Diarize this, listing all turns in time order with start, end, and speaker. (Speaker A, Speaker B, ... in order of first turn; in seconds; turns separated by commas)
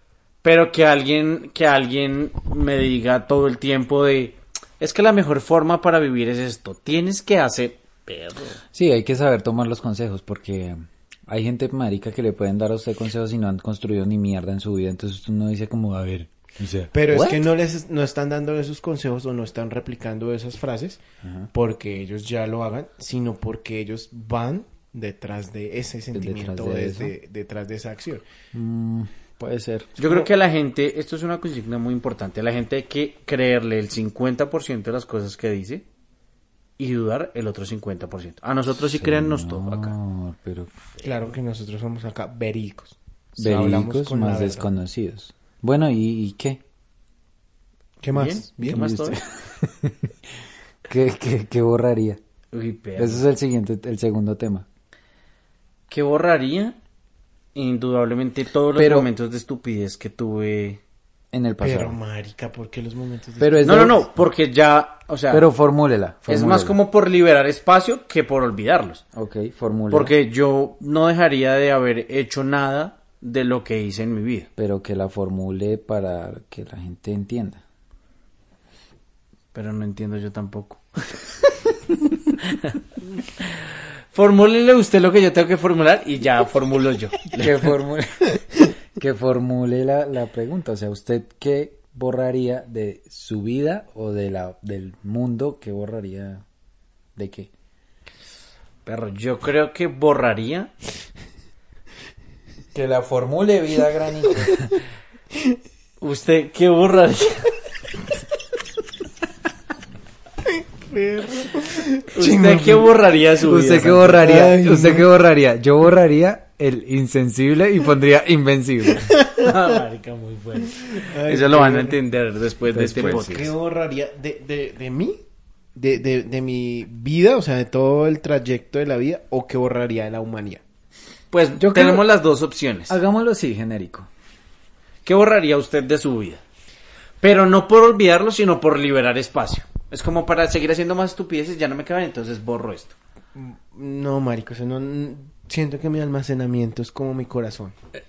Speaker A: 0.4-8.6, Speaker B: 8.7-17.4, Speaker C: 16.9-21.0, Speaker B: 21.2-21.5, Speaker C: 21.5-28.2, Speaker B: 26.1-27.1, Speaker B: 28.5-30.0, Speaker A: 30.0-35.8, Speaker C: 30.0-30.3, Speaker A: 36.8-39.9, Speaker B: 38.9-40.7, Speaker C: 41.0-44.7, Speaker B: 43.4-46.6, Speaker C: 48.0-48.9, Speaker A: 48.1-49.2, Speaker B: 48.7-50.1, Speaker B: 50.9-52.2, Speaker A: 52.5-53.2, Speaker B: 53.0-54.6, Speaker A: 55.9-56.8, Speaker A: 57.5-60.8, Speaker B: 58.7-59.1, Speaker B: 61.3-62.0, Speaker C: 61.6-64.0, Speaker B: 63.4-64.0, Speaker A: 63.6-65.5, Speaker B: 65.3-66.8, Speaker A: 66.3-69.0, Speaker B: 69.1-70.1, Speaker A: 69.9-74.5, Speaker B: 74.5-77.6, Speaker A: 79.5-80.8, Speaker A: 82.4-82.7, Speaker A: 84.1-87.7, Speaker B: 87.3-96.4, Speaker B: 97.2-97.5, Speaker A: 98.8-100.7, Speaker B: 102.7-104.7, Speaker A: 106.0-107.5, Speaker C: 110.5-113.0, Speaker A: 112.1-114.2, Speaker B: 113.4-119.1, Speaker C: 113.9-115.1, Speaker C: 119.0-119.5, Speaker A: 119.4-123.5, Speaker C: 120.8-122.0, Speaker B: 122.7-123.5, Speaker C: 122.8-125.2, Speaker C: 125.7-130.6, Speaker A: 131.3-132.9, Speaker B: 131.6-132.1, Speaker B: 132.9-134.1, Speaker A: 135.0-136.4, Speaker A: 137.2-142.9, Speaker C: 143.3-147.7